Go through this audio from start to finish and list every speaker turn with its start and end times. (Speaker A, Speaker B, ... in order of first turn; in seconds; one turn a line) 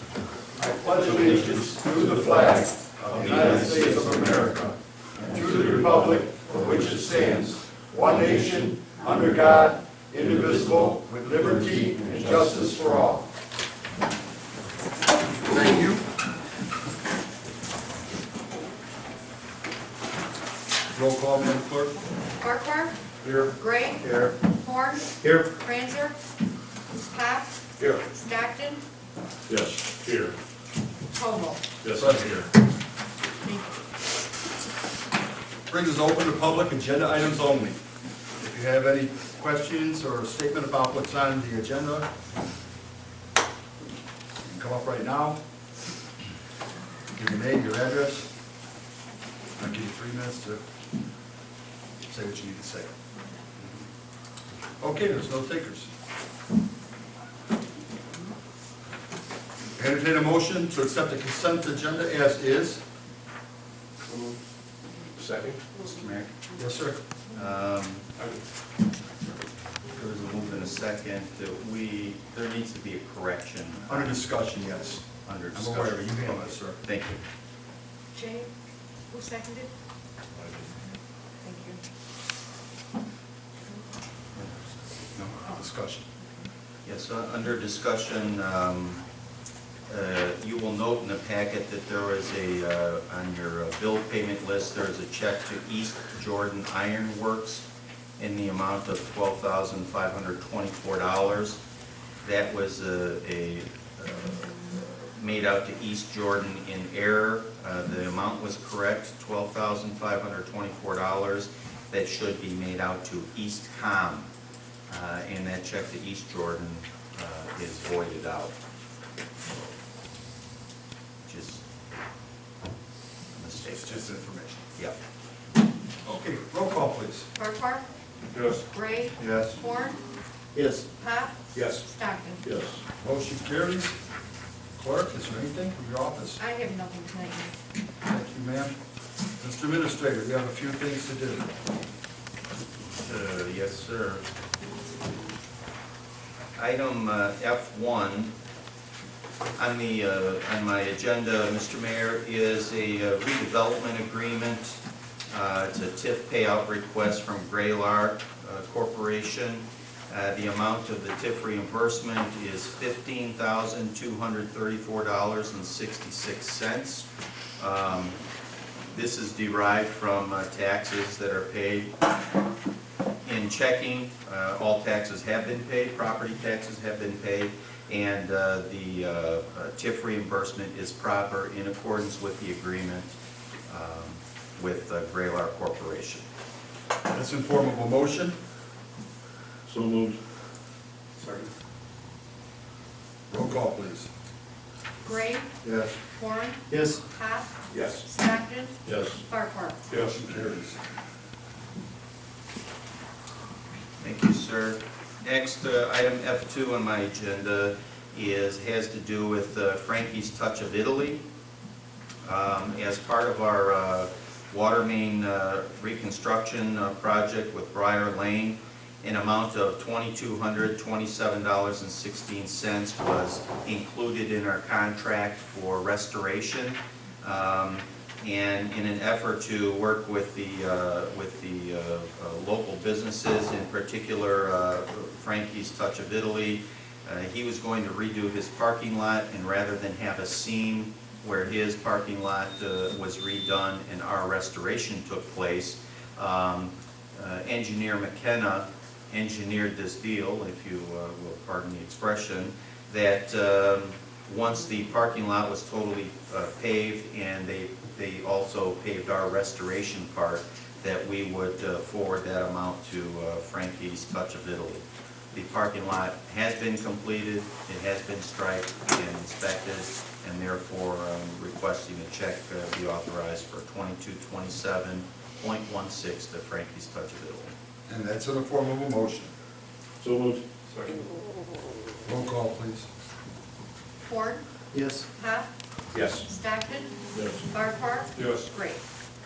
Speaker A: 0.6-4.7
Speaker B: 1.2-1.5
Speaker B: 3.0-4.7
Speaker A: 5.2-13.3
Speaker A: 15.5-16.1
Speaker A: 20.9-21.9
Speaker C: 22.4-23.0
Speaker D: 23.2-23.5
Speaker C: 23.6-26.2
Speaker D: 24.1-24.3
Speaker C: 26.9-27.6
Speaker C: 28.1-28.8
Speaker D: 29.5-30.4
Speaker C: 31.1-31.6
Speaker D: 31.8-32.5
Speaker A: 31.9-32.5
Speaker C: 33.4-33.8
Speaker A: 35.7-37.8
Speaker A: 38.4-42.1
Speaker A: 44.5-45.4
Speaker A: 47.1-48.3
Speaker A: 49.6-50.6
Speaker A: 52.0-52.9
Speaker A: 54.8-55.9
Speaker A: 59.8-62.8
Speaker D: 64.1-64.3
Speaker D: 65.2-65.6
Speaker B: 65.8-66.3
Speaker A: 66.6-67.0
Speaker B: 67.3-68.1
Speaker B: 69.9-74.2
Speaker A: 73.9-76.8
Speaker B: 75.2-77.2
Speaker C: 78.1-78.5
Speaker C: 79.1-79.7
Speaker C: 81.4-81.8
Speaker B: 84.3-84.8
Speaker A: 85.2-86.0
Speaker B: 86.8-89.0
Speaker B: 89.9-97.7
Speaker B: 98.2-101.6
Speaker B: 102.2-114.3
Speaker B: 114.9-118.5
Speaker B: 121.2-121.6
Speaker B: 123.3-124.1
Speaker A: 123.6-124.6
Speaker A: 126.0-127.3
Speaker C: 127.3-127.9
Speaker D: 128.3-128.6
Speaker C: 128.7-130.0
Speaker A: 129.2-129.6
Speaker A: 130.6-130.8
Speaker C: 130.9-132.4
Speaker D: 131.5-131.8
Speaker D: 132.4-132.8
Speaker A: 133.0-133.9
Speaker A: 134.8-136.4
Speaker C: 136.4-137.6
Speaker A: 138.0-138.8
Speaker A: 139.4-141.5
Speaker B: 143.0-144.3
Speaker B: 146.6-148.3
Speaker B: 149.6-167.1
Speaker B: 167.6-168.2
Speaker B: 168.9-171.9
Speaker B: 173.2-186.2
Speaker A: 187.1-188.4
Speaker D: 189.7-190.2
Speaker D: 191.2-191.5
Speaker A: 193.3-194.1
Speaker C: 195.0-195.5
Speaker A: 195.6-195.9
Speaker C: 196.1-199.8
Speaker A: 196.7-197.0
Speaker D: 197.7-198.1
Speaker D: 198.8-199.2
Speaker D: 199.9-200.3
Speaker A: 199.9-200.8
Speaker B: 204.0-211.2
Speaker B: 212.2-277.5
Speaker A: 277.9-279.3
Speaker D: 280.0-281.0
Speaker A: 282.1-282.9
Speaker C: 284.0-284.4
Speaker A: 284.7-285.1
Speaker C: 285.2-285.5
Speaker D: 285.9-286.3
Speaker C: 286.1-288.8
Speaker D: 287.1-287.4
Speaker D: 288.2-288.5